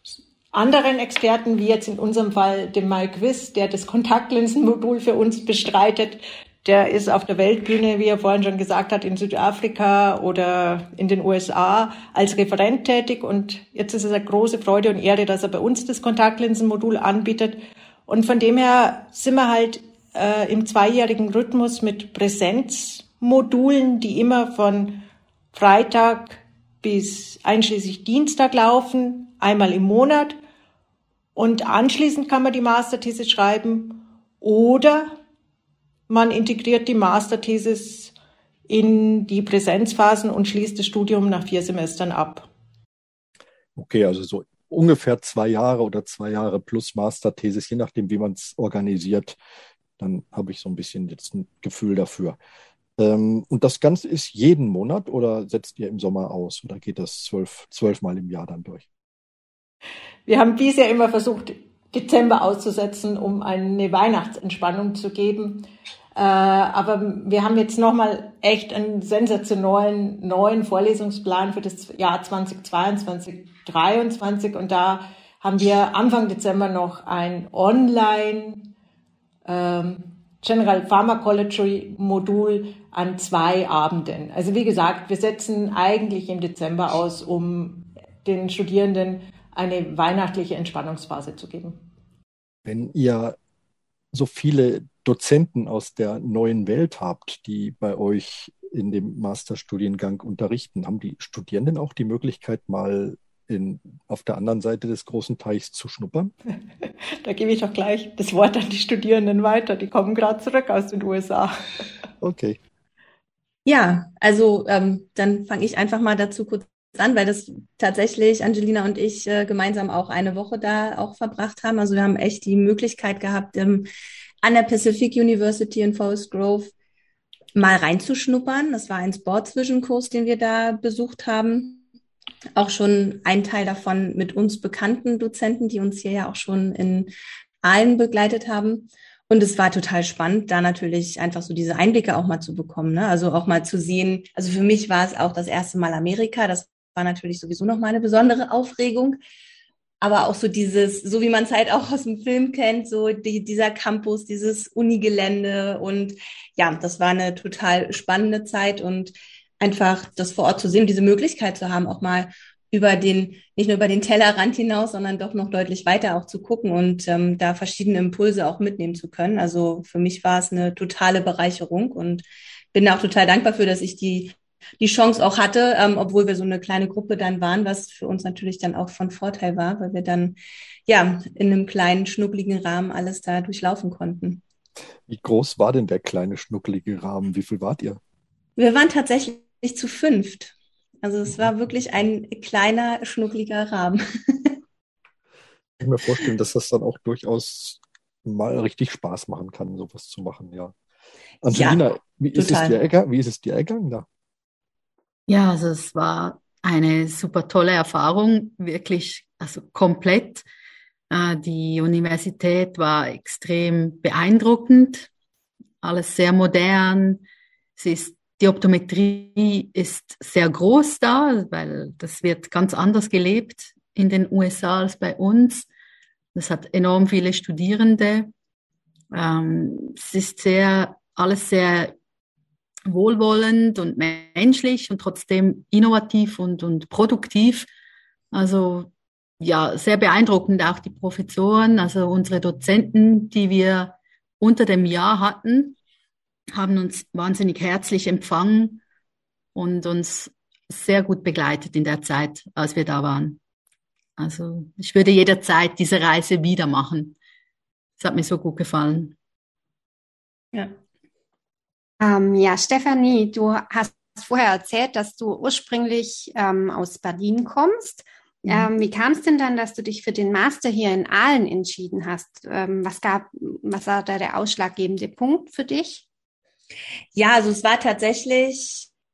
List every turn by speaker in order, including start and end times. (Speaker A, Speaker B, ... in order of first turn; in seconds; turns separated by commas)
Speaker A: 0.5-30.4, Speaker A: 31.4-35.2, Speaker A: 36.1-38.1, Speaker A: 38.7-42.5, Speaker B: 43.8-49.4, Speaker B: 50.0-52.4, Speaker B: 53.0-58.9, Speaker A: 60.3-78.7, Speaker A: 79.5-91.8, Speaker B: 92.7-93.4, Speaker B: 94.1-106.3, Speaker A: 106.8-111.5, Speaker B: 112.2-112.6, Speaker C: 113.7-123.9, Speaker C: 124.4-126.7, Speaker C: 127.5-131.8, Speaker C: 132.6-149.2, Speaker C: 150.0-184.4, Speaker B: 185.1-188.0, Speaker C: 188.6-194.6, Speaker B: 195.8-200.8, Speaker B: 201.4-204.1, Speaker C: 201.5-201.8, Speaker C: 202.3-202.8, Speaker D: 205.3-210.4, Speaker D: 211.1-215.1, Speaker D: 215.8-217.2, Speaker D: 217.8-225.7, Speaker D: 226.3-228.3, Speaker D: 229.1-231.9, Speaker D: 232.9-237.7, Speaker D: 238.3-245.8, Speaker D: 246.5-248.8, Speaker D: 249.6-253.4, Speaker D: 254.2-257.2, Speaker D: 258.0-259.2, Speaker E: 262.0-276.1, Speaker C: 277.1-278.9